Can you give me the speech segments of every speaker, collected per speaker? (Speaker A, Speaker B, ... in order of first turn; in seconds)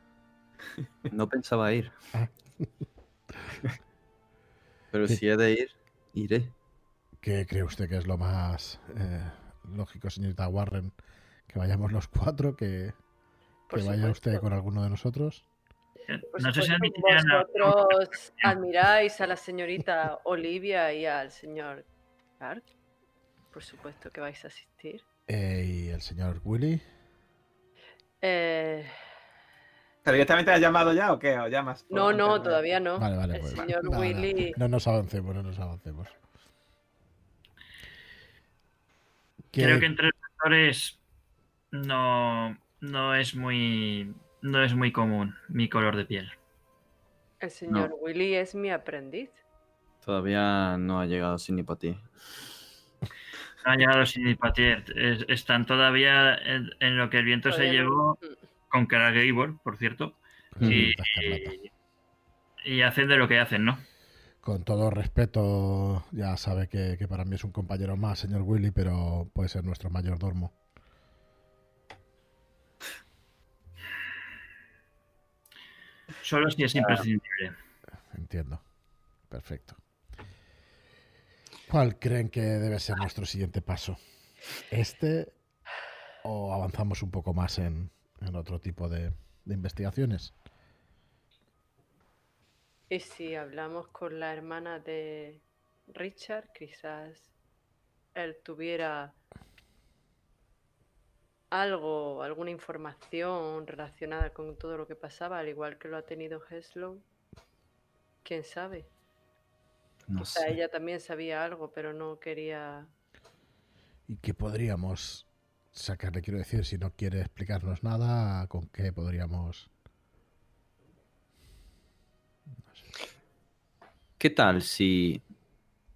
Speaker A: 1.1-1.9, 4.9-6.5, 50.0-52.1, 60.6-60.9, 110.1-110.6, 124.2-125.2
Speaker B: 2.1-2.6, 7.2-10.9, 11.5-13.0, 13.7-15.5, 25.3-26.8, 33.0-36.1, 39.5-39.9, 60.5-61.6, 64.4-70.5, 78.1-78.6, 79.3-79.8, 81.7-84.0, 84.7-85.3, 86.2-90.3, 114.1-119.7
Speaker C: 13.7-14.5, 16.3-21.9, 22.4-22.6, 23.5-25.0, 28.2-28.9, 31.9-34.6, 47.4-49.4, 57.5-58.4, 92.9-97.3, 98.1-99.2, 101.5-107.0, 108.2-108.9, 110.2-112.9
Speaker D: 16.1-18.0, 39.6-41.0, 41.7-46.4, 53.6-58.2, 58.7-61.6, 62.6-63.8, 76.2-77.5
Speaker E: 30.1-32.6